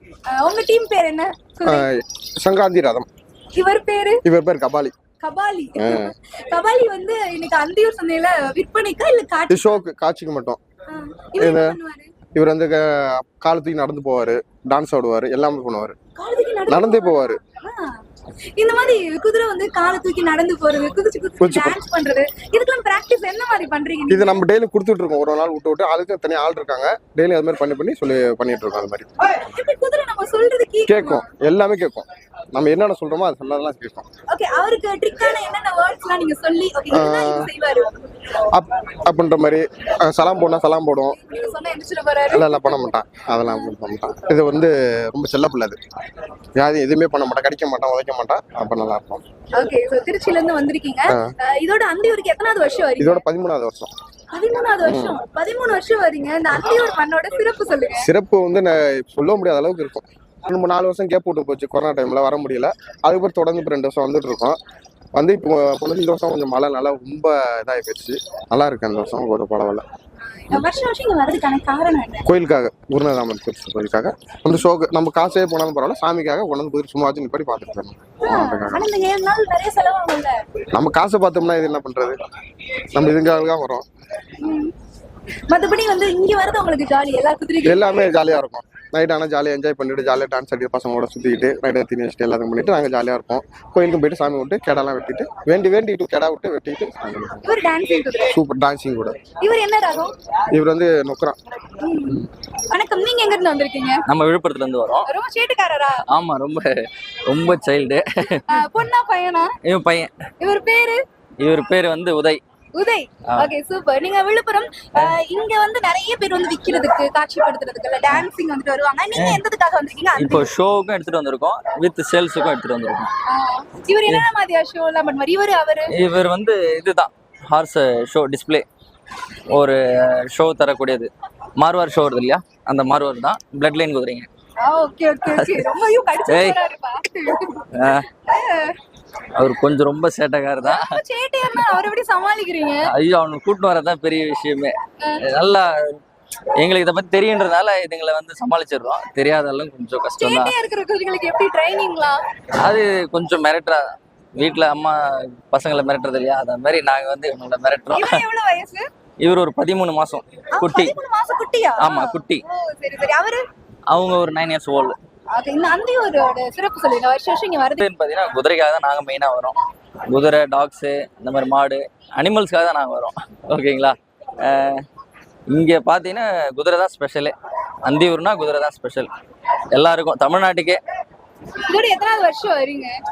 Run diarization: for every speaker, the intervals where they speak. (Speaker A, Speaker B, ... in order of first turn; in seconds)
Speaker A: 0.4-1.8, 3.5-4.2, 5.2-9.8, 10.9-12.1, 16.2-17.8, 18.6-24.4, 29.3-31.2, 34.3-37.9, 41.1-42.9, 43.5-43.7, 49.5-53.2, 54.3-58.1, 70.5-72.2, 78.3-80.3, 84.4-84.7, 85.5-88.1, 97.4-98.3, 99.4-100.1, 101.8-104.0, 105.1-106.0, 108.5-109.5, 110.4-111.0, 112.7-120.5, 123.3-125.9, 134.6-137.6, 138.3-138.8, 140.6-142.9, 150.2-152.2, 157.9-158.8, 160.6-163.4, 165.3-167.8, 181.7-182.9
Speaker B: 1.6-3.1, 4.2-4.9, 5.8-6.1, 9.5-10.6, 11.4-11.8, 12.3-15.9, 16.7-17.4, 21.4-21.8, 24.1-29.1, 30.9-34.0, 36.9-37.5, 38.5-41.2, 42.3-45.8, 46.6-49.2, 53.0-53.9, 54.8-55.2, 58.0-64.6, 65.2-69.8, 72.3-78.9, 80.7-82.2, 82.9-83.8, 87.6-97.5, 98.3-99.2, 100.5-101.3
Speaker C: 104.0-105.1, 106.1-106.7, 107.3-108.4, 109.6-110.1, 111.4-112.4, 119.2-119.4, 120.1-123.1, 125.9-128.6, 129.5-134.3, 135.3-135.6, 136.3-136.6, 137.7-138.0, 139.3-140.8, 142.8-144.7, 145.2-145.7, 146.6-150.5, 152.6-153.8, 154.4-158.2, 159.2-160.9, 161.8-162.4, 163.9-164.9, 167.8-169.5, 170.1-174.8, 175.5-177.3, 177.8-179.1, 179.7-180.8